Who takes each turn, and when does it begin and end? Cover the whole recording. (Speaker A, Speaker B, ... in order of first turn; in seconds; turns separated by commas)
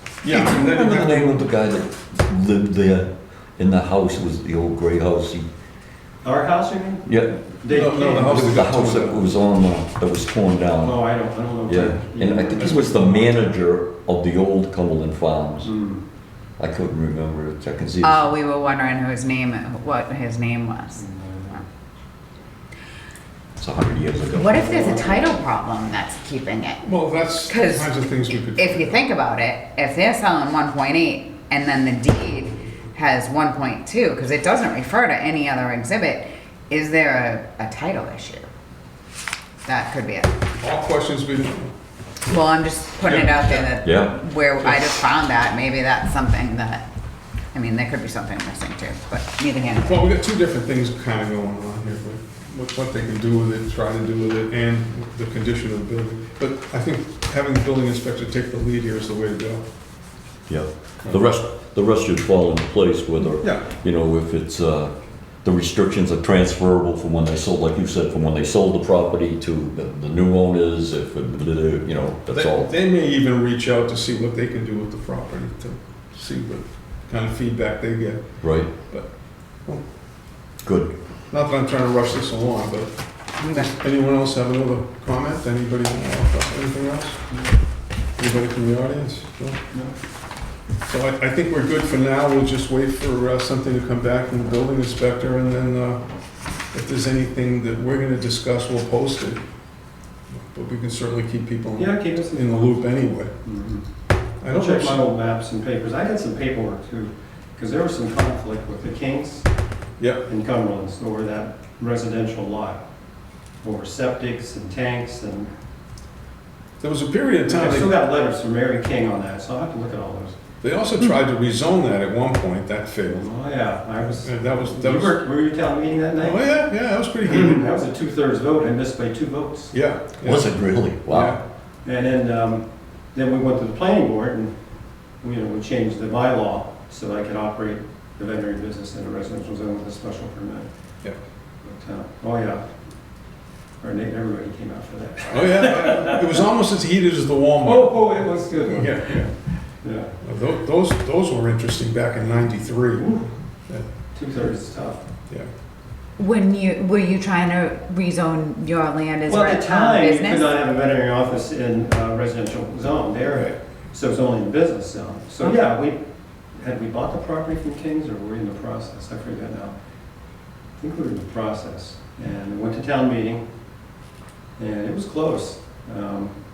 Speaker A: 0.2-1.4, Speaker B: 0.2-5.5, Speaker C: 6.2-7.1, Speaker B: 7.0-7.4, Speaker C: 7.6-8.5, Speaker A: 7.7-9.3, Speaker B: 8.2-11.0, Speaker C: 10.8-12.8, Speaker B: 11.7-15.7, Speaker A: 12.6-13.5, Speaker C: 15.6-16.0, Speaker B: 16.6-18.3, Speaker D: 18.0-21.0, Speaker C: 20.9-21.6, Speaker B: 23.6-24.6, Speaker D: 24.3-26.8, Speaker C: 24.5-25.4, Speaker A: 26.8-29.0, Speaker D: 27.4-38.5, Speaker D: 39.6-40.3, Speaker A: 40.6-41.7, Speaker D: 42.3-46.8, Speaker A: 43.0-43.7, Speaker B: 43.8-44.2, Speaker D: 47.5-50.1, Speaker A: 49.8-59.6, Speaker B: 60.5-64.9, Speaker A: 63.4-63.7, Speaker B: 65.4-72.7, Speaker A: 72.3-78.2, Speaker B: 78.4-78.7, Speaker A: 78.8-79.1, Speaker B: 80.6-80.9, Speaker A: 81.3-87.2, Speaker D: 83.4-83.7, Speaker A: 88.2-89.6, Speaker A: 90.8-96.0, Speaker A: 96.7-99.4, Speaker A: 100.3-103.3, Speaker C: 101.8-102.8, Speaker C: 103.4-103.8, Speaker A: 104.4-105.0, Speaker C: 104.5-109.5, Speaker A: 110.0-110.2, Speaker C: 110.2-112.8, Speaker C: 113.6-115.5, Speaker A: 116.8-117.9, Speaker C: 117.5-120.3, Speaker A: 120.6-123.3, Speaker C: 123.1-126.6, Speaker A: 124.0-125.2, Speaker A: 126.2-127.7, Speaker C: 127.2-129.7, Speaker A: 129.7-130.5, Speaker B: 130.2-131.4, Speaker A: 131.1-131.4, Speaker C: 131.8-134.5, Speaker C: 135.2-140.7, Speaker C: 141.6-142.7, Speaker C: 143.8-146.4, Speaker A: 145.3-149.3, Speaker C: 147.6-149.2, Speaker C: 149.8-150.1, Speaker A: 150.2-153.2, Speaker C: 153.0-153.3, Speaker C: 154.1-155.0, Speaker D: 156.2-160.5, Speaker C: 159.3-166.0, Speaker C: 166.5-169.7, Speaker C: 170.8-173.4, Speaker C: 174.6-176.3